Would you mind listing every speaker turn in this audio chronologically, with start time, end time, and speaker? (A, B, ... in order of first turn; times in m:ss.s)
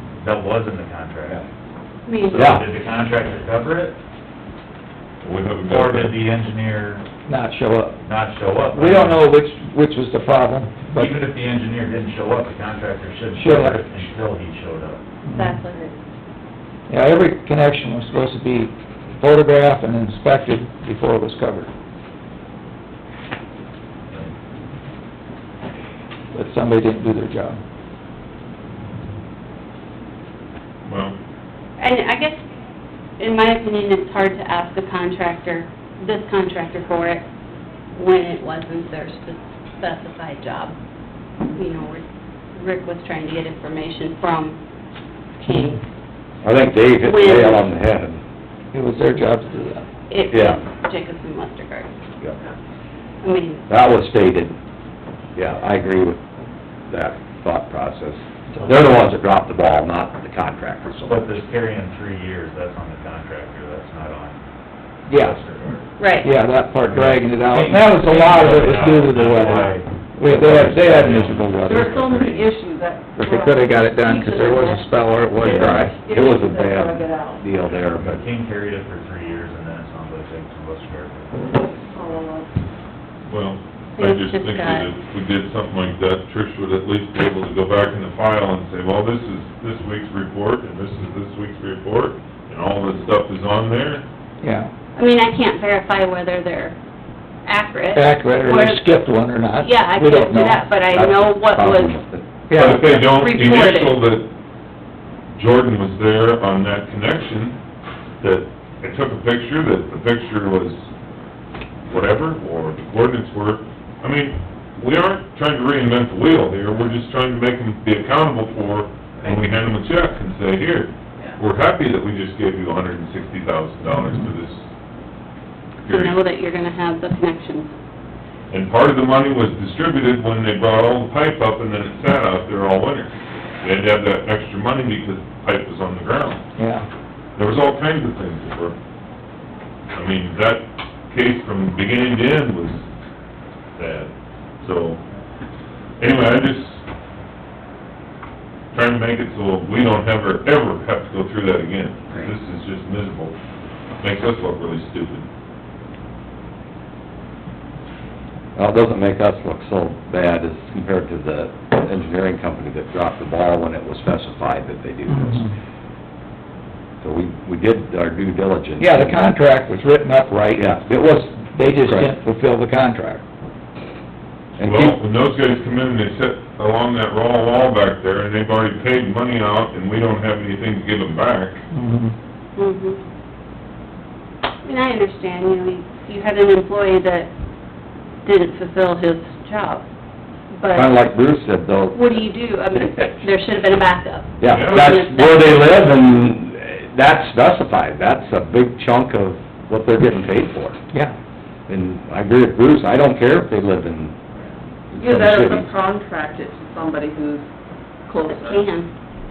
0:00.2-0:01.4 A
0:02.0-0:02.5 B
0:02.2-0:04.0 A
0:02.3-0:02.6 C
0:05.2-0:06.2 D
0:05.6-0:07.0 A
0:07.3-0:08.0 E
0:08.0-0:09.2 A
0:08.7-0:11.1 E
0:10.9-0:15.0 A
0:13.4-0:13.9 E
0:15.2-0:15.6 E
0:15.3-0:15.9 B
0:16.9-0:21.7 E
0:26.3-0:27.6 E
0:30.8-0:31.2 D
0:31.8-0:32.4 B
0:33.2-0:37.2 B
0:37.9-0:40.8 B
0:41.5-0:42.0 B
0:42.5-0:44.6 B
0:45.4-0:45.8 B
0:46.4-0:48.2 C
0:47.0-0:47.7 B
0:48.7-0:49.9 E
0:50.1-0:51.9 B
0:50.3-0:50.6 C
0:53.2-0:53.6 B
0:53.7-0:54.6 C
0:55.3-0:56.2 C
0:56.9-1:01.3 C
0:58.5-0:58.8 E
1:01.1-1:04.4 A
1:05.1-1:06.0 A
1:05.1-1:05.4 E
1:06.0-1:06.3 B
1:06.2-1:11.5 E
1:06.8-1:11.4 A
1:09.3-1:09.7 F
1:10.2-1:12.6 C
1:11.6-1:17.4 F
1:13.1-1:16.0 E
1:15.9-1:18.2 C
1:17.6-1:21.5 A
1:21.5-1:22.5 F
1:23.2-1:34.0 D
1:24.0-1:24.9 B
1:34.4-1:34.7 E
1:35.0-1:36.8 B
1:37.4-1:38.9 B
1:37.9-1:40.7 E
1:39.5-1:42.0 B
1:40.8-1:42.2 C
1:42.5-1:42.8 E
1:42.5-1:44.3 D
1:42.7-1:44.0 B
1:45.3-1:47.6 D
1:48.2-1:50.9 D
1:51.9-2:04.6 D
2:05.8-2:06.2 D
2:05.9-2:07.7 B
2:08.5-2:16.4 D
2:16.6-2:16.8 E
2:17.4-2:18.8 D
2:19.9-2:22.9 D
2:23.8-2:25.0 D
2:26.0-2:26.8 D
2:28.7-2:33.4 D
2:34.0-2:35.2 D
2:38.6-2:45.5 C
2:45.1-2:45.5 E
2:47.0-2:49.2 C
2:48.8-2:53.2 E
2:50.5-2:51.2 C
2:51.8-2:52.1 C
2:54.6-2:54.9 C
2:54.6-3:01.6 D
3:01.7-3:02.1 E
3:02.6-3:03.0 B
3:04.6-3:07.3 B
3:08.2-3:09.8 B
3:10.5-3:11.0 B
3:10.7-3:12.2 C
3:11.9-3:15.9 B
3:14.4-3:20.8 C
3:14.5-3:15.0 D
3:21.7-3:24.2 C
3:24.4-3:27.4 F
3:24.9-3:25.7 C
3:28.1-3:28.7 F
3:28.2-3:28.9 B